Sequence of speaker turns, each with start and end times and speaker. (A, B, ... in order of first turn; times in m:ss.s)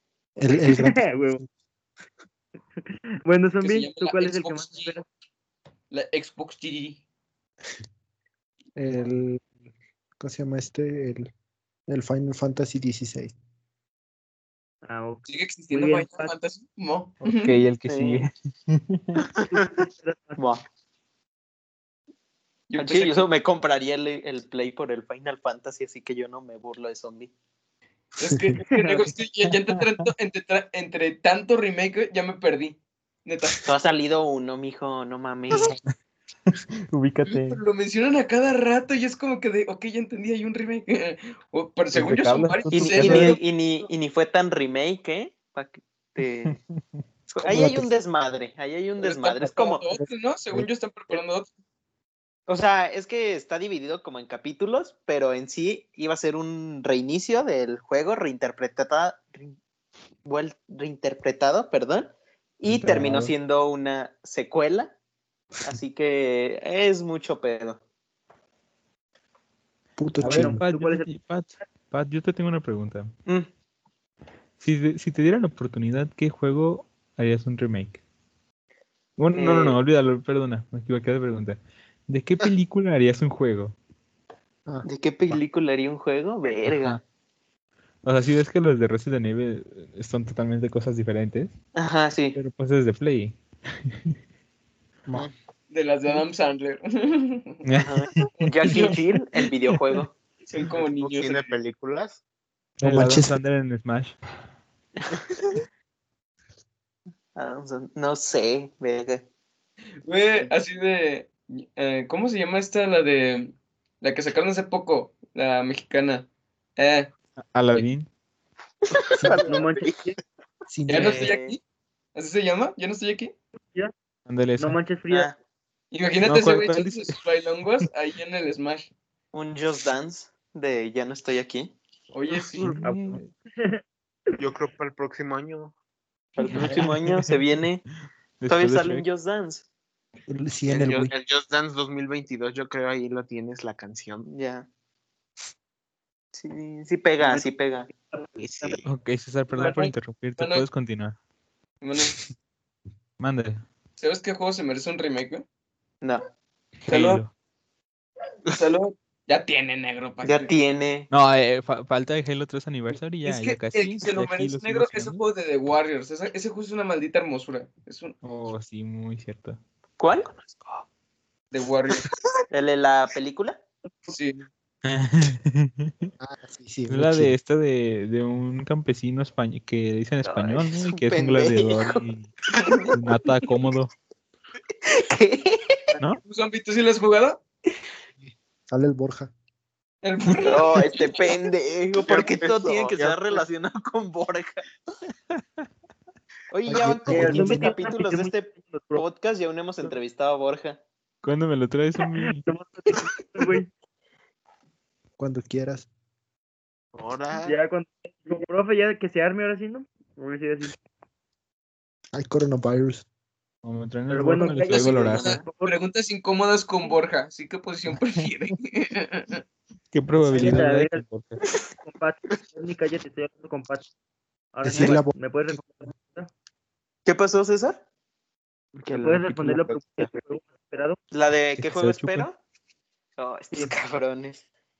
0:00.4-0:01.5 A
0:00.5-0:01.4 B
0:03.2-0:05.0 B
0:03.6-0:05.0 C
0:05.9-0:07.0 C
0:08.8-0:09.4 A
0:10.2-0:11.3 A
0:11.9-0:13.3 A
0:14.8-0:16.3 B
0:15.3-0:17.6 C
0:17.2-0:19.3 D
0:17.9-0:18.2 E
0:19.5-0:20.4 B
0:20.4-0:20.6 E
0:22.7-0:23.2 C
0:22.8-0:27.3 E
0:28.2-0:33.7 C
0:28.7-0:29.0 B
0:29.8-0:30.1 D
0:33.6-0:35.8 E
0:36.5-0:37.6 D
0:37.3-0:43.4 C
0:41.9-0:43.4 D
0:42.7-0:46.5 E
0:46.4-0:47.0 D
0:47.4-0:47.9 A
0:47.4-0:49.8 E
0:49.0-0:51.5 C
0:52.5-0:59.6 E
1:00.2-1:05.0 E
1:02.7-1:03.3 D
1:05.6-1:07.8 E
1:10.0-1:10.6 A
1:10.2-1:11.1 B
1:10.2-1:13.1 D
1:14.6-1:18.0 D
1:19.2-1:23.8 D
1:19.3-1:19.8 E
1:24.7-1:25.4 A
1:24.8-1:27.0 E
1:26.7-1:27.0 D
1:28.0-1:31.5 D
1:31.8-1:32.4 E
1:32.4-1:34.2 D
1:35.7-1:37.6 C
1:37.6-1:38.9 D
1:37.8-1:40.1 E
1:38.7-1:39.0 C
1:40.5-1:41.6 C
1:40.8-1:42.2 F
1:42.8-1:44.2 D
1:42.8-1:43.3 A
1:47.4-1:49.2 E
1:50.0-1:57.1 C
1:57.4-1:58.1 D
1:59.2-2:00.0 F
1:59.5-2:00.2 B
2:00.7-2:01.3 A
2:00.9-2:01.6 C
2:00.9-2:01.6 E
2:02.2-2:03.3 C
2:04.3-2:04.8 D
2:04.6-2:05.3 B
2:05.1-2:05.4 E
2:05.9-2:08.9 C
2:06.2-2:07.2 D
2:09.3-2:11.8 E
2:12.1-2:12.8 C
2:12.6-2:13.3 D
2:12.8-2:13.8 B
2:14.4-2:15.7 F
2:16.4-2:17.8 E
2:16.5-2:17.4 D
2:18.4-2:19.0 D
2:18.5-2:19.7 E
2:20.3-2:21.1 A
2:20.7-2:24.3 F
2:24.3-2:24.7 E
2:26.3-2:27.9 E
2:27.2-2:27.5 B
2:28.1-2:28.7 B
2:28.4-2:28.8 F
2:28.8-2:31.2 D
2:29.6-2:29.9 B
2:30.4-2:30.6 C
2:31.8-2:32.2 C
2:33.2-2:33.7 D
2:34.0-2:35.4 C
2:36.8-2:37.3 D
2:36.9-2:37.2 C
2:38.5-2:40.5 C
2:40.2-2:41.1 E
2:41.1-2:45.2 D
2:43.2-2:48.2 C
2:48.2-2:49.6 D
2:50.0-2:50.3 E
2:50.4-2:50.8 D
2:51.5-2:52.1 C
2:52.5-2:53.6 E
2:54.1-2:54.5 C
2:54.8-2:56.1 D
2:56.2-2:57.3 A
2:56.9-3:02.3 D
3:00.2-3:02.0 E
3:02.9-3:03.9 D
3:04.8-3:06.0 E
3:06.2-3:07.4 C
3:08.7-3:09.3 A
3:10.0-3:11.1 C
3:10.4-3:14.6 E
3:12.0-3:13.4 F
3:16.5-3:20.8 E
3:16.7-3:17.8 A
3:17.1-3:19.0 B
3:21.2-3:22.4 D
3:22.4-3:23.7 B
3:25.2-3:25.9 A
3:26.9-3:27.6 F
3:27.4-3:30.8 B
3:32.1-3:33.0 A
3:33.6-3:35.4 D
3:34.1-3:35.8 B
3:34.7-3:35.4 E
3:34.7-3:39.4 C
3:39.9-3:41.4 D
3:40.2-3:40.6 A
3:40.3-3:41.0 B
3:41.8-3:43.9 B
3:44.5-3:46.3 B
3:44.6-3:45.6 A
3:47.0-3:47.8 E
3:48.8-3:50.1 F
3:48.9-3:51.0 B
3:51.1-3:52.4 E
3:51.6-3:52.3 D
3:53.2-3:54.4 E